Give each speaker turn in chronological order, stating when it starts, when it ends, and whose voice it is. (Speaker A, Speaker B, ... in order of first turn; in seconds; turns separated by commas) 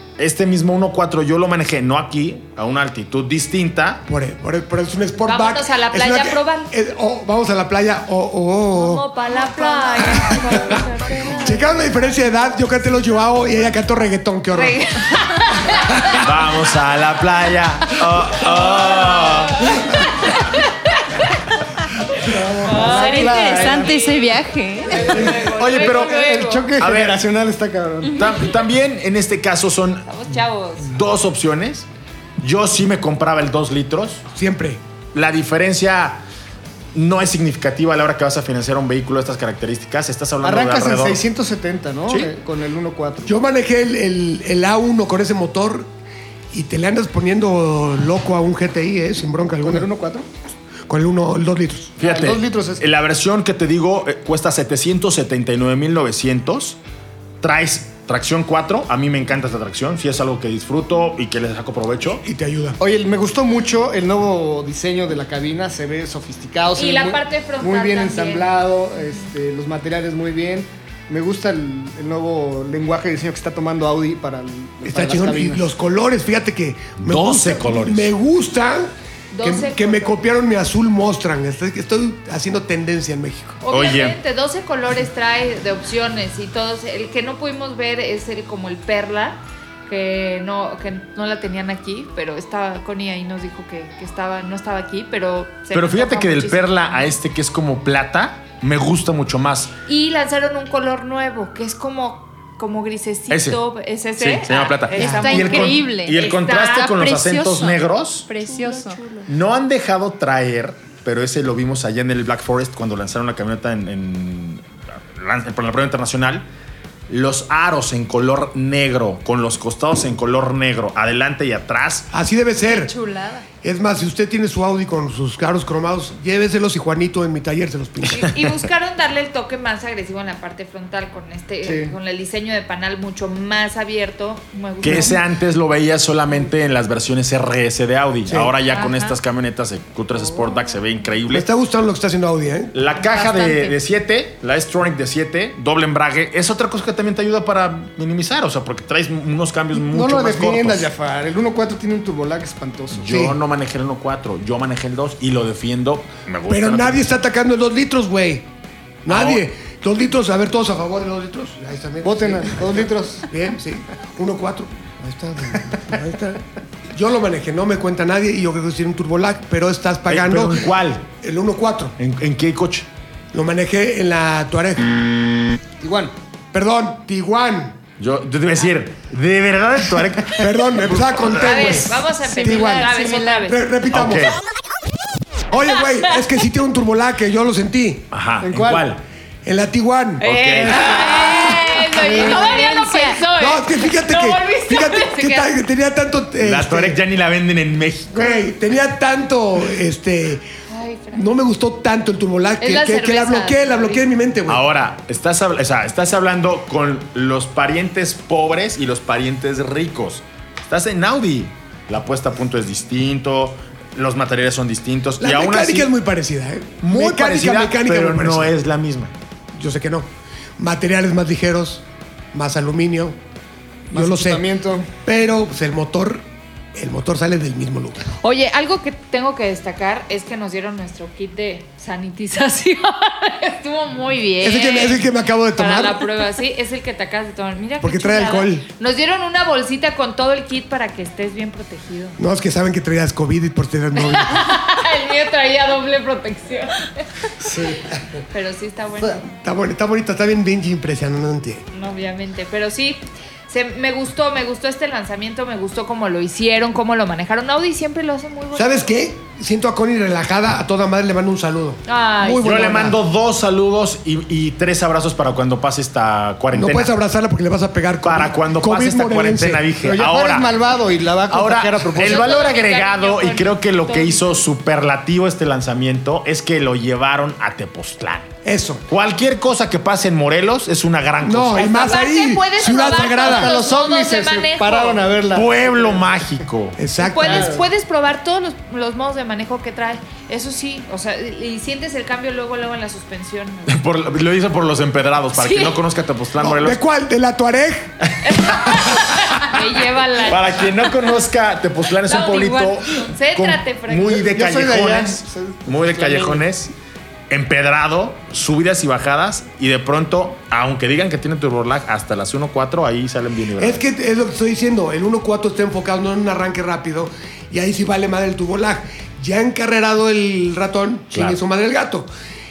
Speaker A: 0.2-4.0, Speaker B: 4.0-14.8, Speaker C: 5.2-6.7, Speaker C: 8.7-11.6, Speaker C: 14.5-16.2, Speaker A: 16.2-19.8, Speaker C: 18.4-20.6, Speaker D: 22.2-23.9, Speaker C: 22.6-26.7, Speaker E: 22.9-25.2, Speaker D: 24.9-28.2, Speaker A: 25.4-26.2, Speaker A: 26.8-27.2, Speaker A: 28.1-30.2, Speaker C: 30.1-30.9, Speaker A: 30.8-31.9, Speaker A: 32.4-34.2, Speaker B: 34.3-34.8, Speaker A: 35.1-36.2, Speaker A: 36.9-41.2, Speaker D: 40.4-43.3, Speaker A: 42.1-42.3, Speaker B: 43.2-45.9, Speaker B: 46.5-49.9, Speaker D: 49.6-50.3, Speaker B: 50.9-51.9, Speaker A: 52.0-56.8, Speaker D: 52.0-52.8, Speaker A: 57.4-62.2, Speaker B: 62.1-62.8, Speaker D: 62.8-75.7, Speaker C: 66.7-68.5, Speaker B: 74.8-83.6, Speaker A: 77.0-78.1, Speaker C: 79.3-80.2, Speaker C: 83.6-97.1, Speaker A: 83.7-84.2, Speaker A: 95.7-99.7, Speaker C: 99.9-107.0, Speaker A: 103.3-103.6, Speaker A: 104.2-108.3, Speaker E: 104.9-109.2, Speaker C: 108.4-109.3, Speaker A: 109.3-116.4, Speaker A: 117.1-122.1, Speaker B: 122.1-122.9, Speaker E: 122.7-123.4, Speaker B: 123.6-128.2, Speaker C: 128.1-135.2, Speaker D: 131.6-131.9, Speaker A: 134.8-141.4, Speaker B: 138.2-138.5, Speaker C: 138.7-139.1, Speaker B: 141.3-142.7, Speaker A: 142.7-150.9, Speaker E: 143.1-143.7, Speaker D: 149.7-153.1, Speaker A: 153.0-157.0, Speaker B: 153.0-153.4, Speaker B: 156.5-158.5, Speaker B: 159.0-171.9, Speaker A: 159.1-159.4, Speaker D: 162.0-163.3, Speaker A: 170.1-171.1, Speaker A: 172.0-172.9, Speaker B: 173.3-174.9, Speaker D: 175.8-176.1, Speaker B: 176.5-177.8, Speaker A: 178.0-181.8, Speaker B: 180.3-184.3, Speaker C: 181.3-183.6, Speaker E: 182.2-183.5, Speaker A: 183.9-184.4, Speaker B: 185.5-188.1, Speaker A: 188.1-189.0, Speaker D: 188.4-188.8, Speaker B: 189.4-190.2, Speaker C: 190.2-195.5, Speaker A: 190.2-191.0, Speaker E: 190.9-193.3, Speaker D: 192.0-192.5, Speaker B: 193.3-197.0, Speaker A: 196.4-198.4, Speaker B: 198.1-200.4, Speaker C: 200.7-201.3, Speaker B: 201.1-204.7, Speaker C: 202.6-204.1, Speaker A: 204.5-215.9, Speaker B: 215.2-218.5, Speaker A: 216.8-219.1, Speaker B: 219.5-223.2, Speaker D: 223.9-224.9, Speaker B: 223.9-224.4, Speaker B: 225.0-228.1, Speaker C: 228.2-242.2, Speaker B: 234.4-236.1, Speaker B: 237.8-238.7, Speaker B: 242.2-244.4, Speaker C: 244.0-247.0, Speaker D: 247.4-247.9, Speaker C: 248.3-249.2, Speaker B: 249.3-251.6, Speaker C: 251.7-258.9, Speaker B: 258.5-263.0, Speaker C: 261.9-262.6, Speaker A: 262.4-266.9, Speaker B: 266.5-269.6, Speaker A: 268.0-270.6, Speaker D: 269.8-272.4, Speaker A: 271.3-278.3, Speaker C: 272.0-274.4, Speaker B: 278.4-278.8, Speaker A: 278.9-281.8, Speaker B: 281.2-283.5, Speaker C: 281.6-285.0, Speaker D: 283.2-286.1, Speaker A: 285.3-286.8, Speaker B: 286.8-287.6, Speaker C: 287.0-293.8, Speaker D: 287.2-287.6, Speaker A: 293.7-296.8, Speaker C: 295.3-295.8, Speaker B: 296.4-297.9, Speaker A: 298.2-299.0, Speaker C: 298.3-300.7, Speaker A: 300.2-306.7, Speaker C: 302.1-304.2, Speaker D: 304.1-306.4, Speaker A: 307.3-313.8, Speaker B: 313.6-322.1, Speaker A: 321.1-321.4